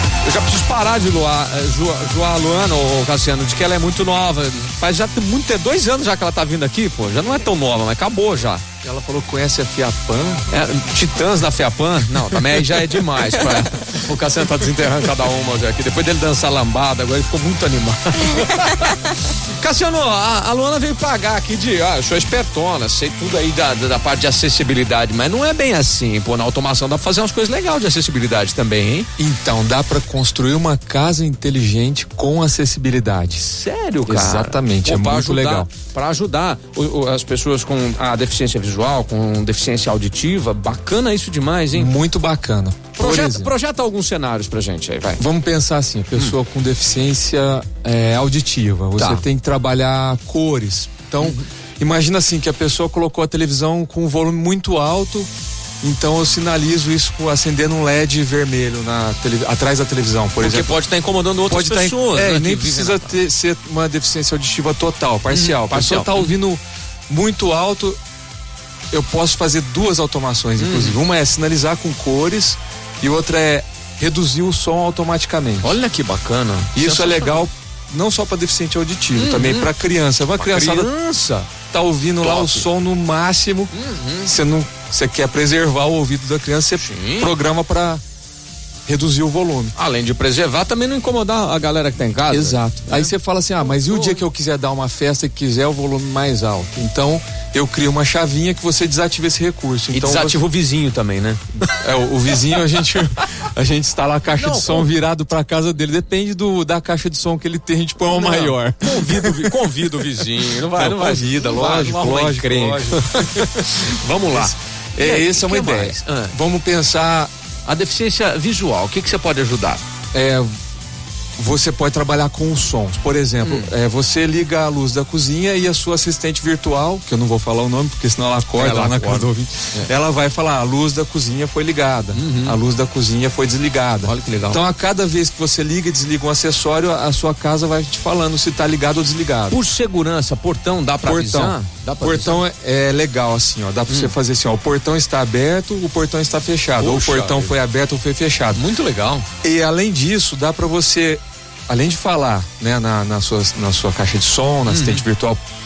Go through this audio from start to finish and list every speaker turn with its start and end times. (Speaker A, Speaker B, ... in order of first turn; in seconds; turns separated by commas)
Speaker A: 0.2-8.6, Speaker B: 8.8-10.4, Speaker A: 10.5-29.1, Speaker B: 29.2-33.5, Speaker A: 33.5-42.0, Speaker B: 34.1-35.7, Speaker B: 41.7-43.5, Speaker A: 43.0-45.2, Speaker B: 45.2-55.3, Speaker A: 49.0-49.2, Speaker A: 51.2-51.5, Speaker B: 55.8-60.8, Speaker A: 60.4-63.2, Speaker B: 61.5-68.0, Speaker A: 65.3-66.3, Speaker B: 68.9-75.8, Speaker A: 70.6-71.0, Speaker A: 75.6-77.5, Speaker B: 76.7-80.9, Speaker A: 79.1-79.7, Speaker A: 80.4-81.5, Speaker B: 81.7-88.0, Speaker A: 82.2-82.7, Speaker A: 83.7-84.3, Speaker A: 86.8-87.3, Speaker B: 88.9-89.7, Speaker A: 89.8-93.1, Speaker B: 92.3-100.4, Speaker A: 93.7-94.2, Speaker A: 99.9-101.7, Speaker B: 101.8-109.5, Speaker A: 104.3-104.9, Speaker A: 108.0-116.3, Speaker B: 110.7-113.5, Speaker B: 114.3-117.3, Speaker A: 117.7-119.8, Speaker B: 120.1-120.5, Speaker B: 121.4-139.6, Speaker A: 123.4-123.7, Speaker A: 128.5-129.9, Speaker A: 132.1-132.6, Speaker A: 134.0-134.6, Speaker A: 139.5-142.4, Speaker B: 141.0-148.6, Speaker A: 143.9-144.1, Speaker A: 146.8-147.6, Speaker A: 148.5-149.3, Speaker B: 149.4-155.4, Speaker A: 154.7-155.0